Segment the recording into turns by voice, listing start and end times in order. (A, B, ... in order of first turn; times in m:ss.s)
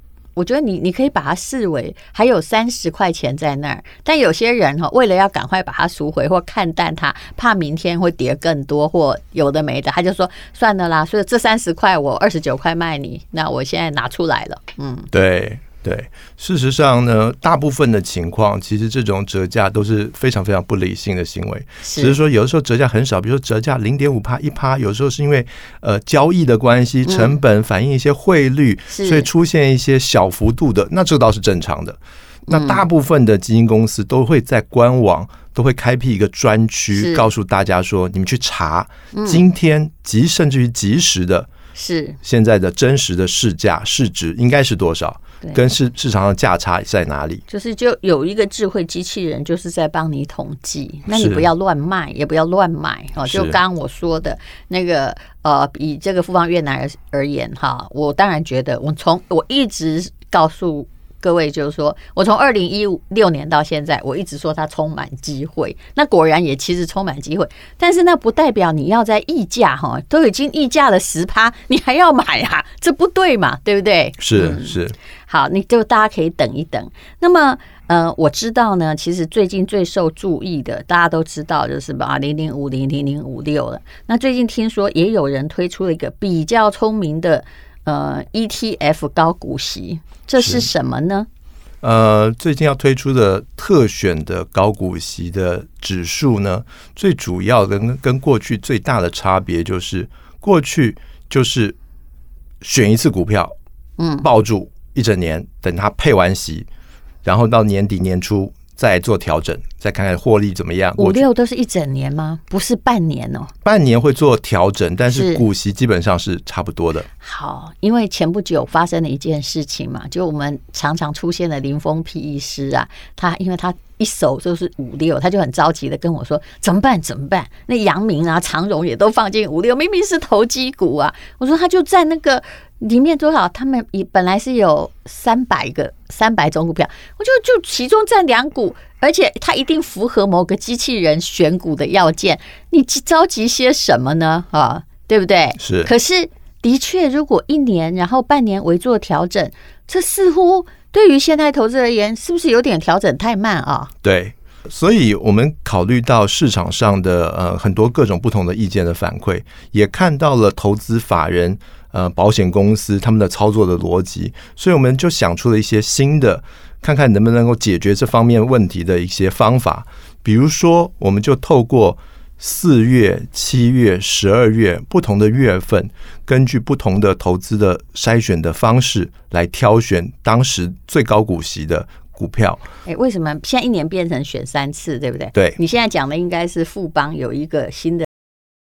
0:00.4-0:15.1 A
0:15.1-0:41.5 B
0:21.8-0:22.2 A
0:27.1-0:27.3 A
0:28.9-0:29.3 A
0:32.5-0:32.8 A
0:36.9-0:37.3 A
0:39.1-0:39.4 A
0:41.7-0:42.2 A
0:42.2-0:47.4 B
0:47.5-1:31.3 A
0:51.1-0:51.5 B
0:53.3-0:53.6 B
1:14.2-1:15.0 B
1:30.4-1:30.7 B
1:31.8-1:41.8 B
1:42.6-1:43.5 B
1:44.0-1:44.3 A
1:44.2-1:46.7 B
1:47.2-1:51.2 B
1:51.0-1:53.5 A
1:53.6-1:57.1 B
1:55.1-1:55.4 A
1:57.2-2:33.9 A
2:25.6-2:25.9 B
2:34.0-3:02.6 B
3:02.8-3:08.1 A